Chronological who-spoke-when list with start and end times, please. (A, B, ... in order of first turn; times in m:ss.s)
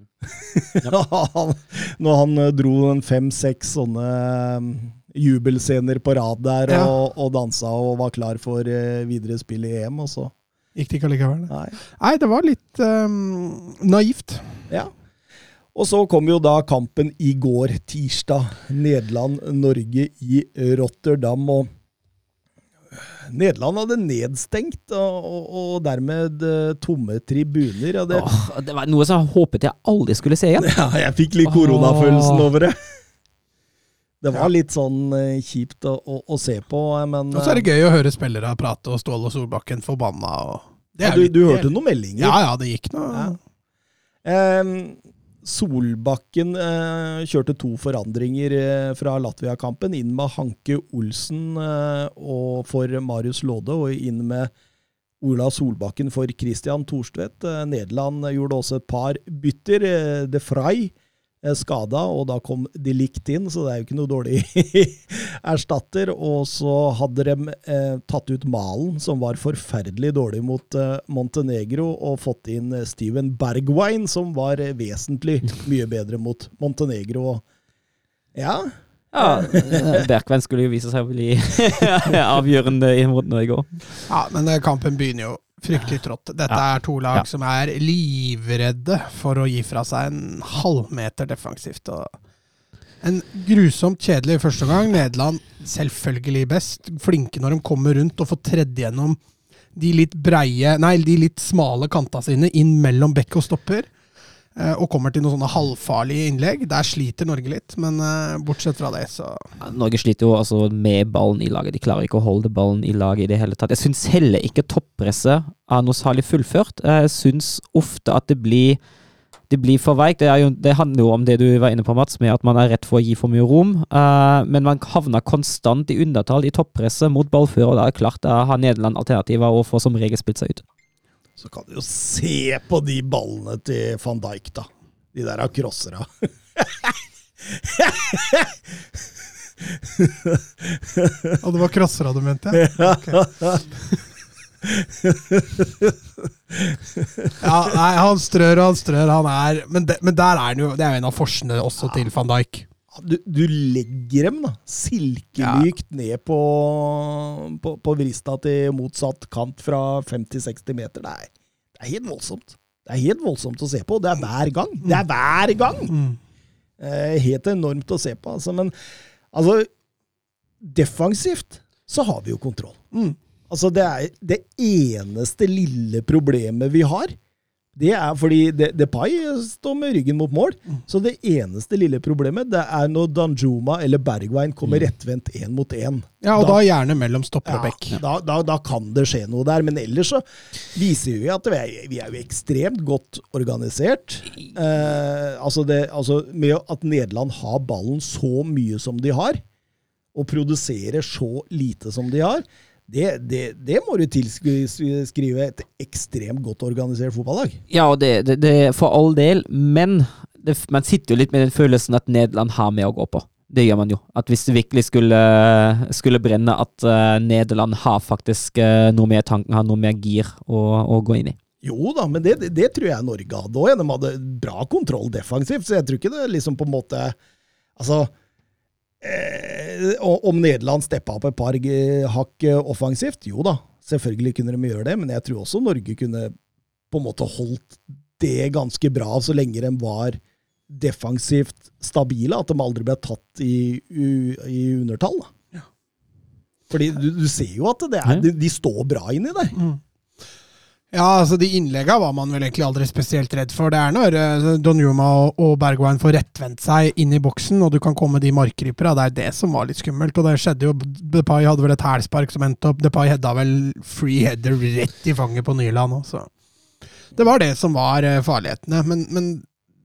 0:00.2-0:10.3 A
0:10.8-0:14.6 B
0:11.5-0:11.8 A
0:15.7-0:21.7 A
0:22.9-0:28.3 A
0:28.1-0:30.7 C
0:30.6-0:32.8 A
0:31.5-0:32.4 C
0:34.2-0:37.7 A
0:37.3-0:43.4 B
0:41.0-0:42.4 A
0:44.2-0:54.5 A
0:55.2-1:17.4 A
1:18.3-1:20.0 A
1:19.1-1:24.0 C
1:24.1-1:32.1 B
1:33.0-1:39.2 B
1:39.7-1:43.9 B
1:44.6-1:49.5 B
1:49.6-1:58.8 C
1:59.5-2:10.6 C
2:11.4-2:18.6 A
2:19.6-2:21.4 A
2:21.4-2:23.2 B
2:22.5-2:23.9 A
2:24.6-2:27.4 A
2:27.4-2:32.6 B
2:32.9-2:45.9 A
2:35.4-2:35.7 B
2:45.9-2:46.2 B
2:46.8-2:48.7 A
2:49.3-2:49.7 A
2:50.6-2:52.8 A
2:53.5-2:57.2 A
2:57.8-3:06.6 A
3:06.2-3:08.0 B
3:07.4-3:19.4 A
3:20.1-3:27.6 A
3:27.7-3:41.4 C
3:41.6-3:47.2 A
3:47.8-3:48.1 A
3:49.0-3:56.3 A
3:56.9-4:05.3 A
4:06.7-4:09.6 A
4:10.9-4:26.3 B
4:27.1-4:29.4 B